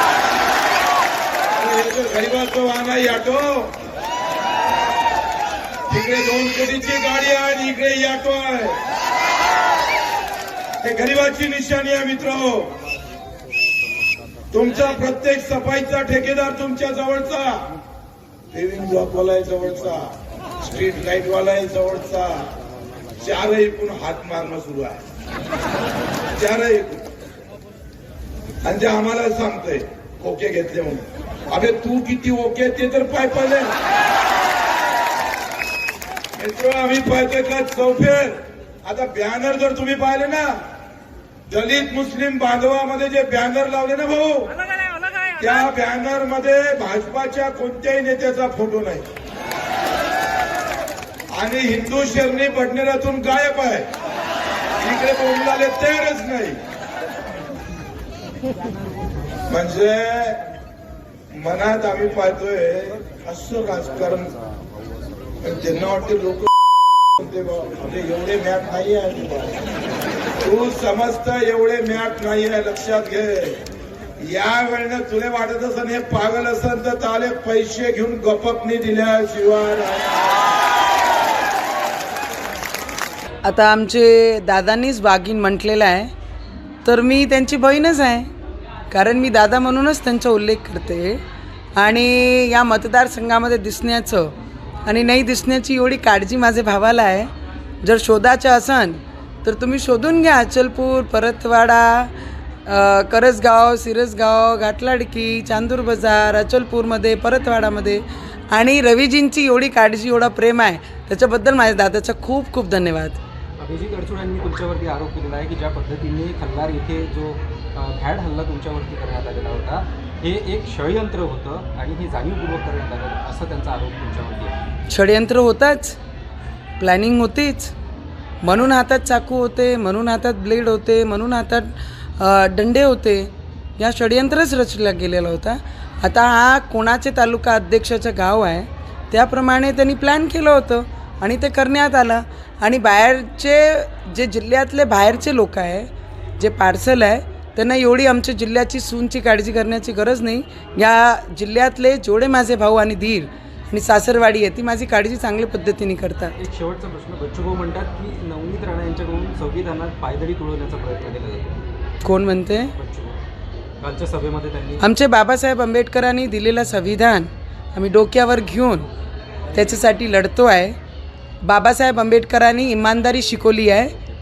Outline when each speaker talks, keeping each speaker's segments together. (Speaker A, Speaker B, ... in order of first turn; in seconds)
Speaker A: 1.5-3.7, 5.9-8.8, 10.8-12.7, 14.5-17.6, 18.5-22.5, 23.2-25.0, 26.3-27.1, 28.6-33.7, 36.3-40.6, 41.5-44.5, 45.3-49.1, 51.3-53.9, 54.8-56.6, 59.5-60.4, 61.3-64.3, 65.4-66.5, 67.1-69.6, 70.4-73.6, 74.2-80.2
Speaker B: 83.4-86.1, 86.8-88.3, 88.9-91.2, 91.7-94.3, 94.8-97.3, 97.8-102.1, 102.7-113.2, 124.9-126.0, 126.8-127.7, 128.4-156.4, 162.0-162.7, 164.8-168.9, 169.5-170.8, 171.4-173.9
Speaker C: 113.6-124.6, 156.4-161.6, 162.7-163.2, 163.8-164.8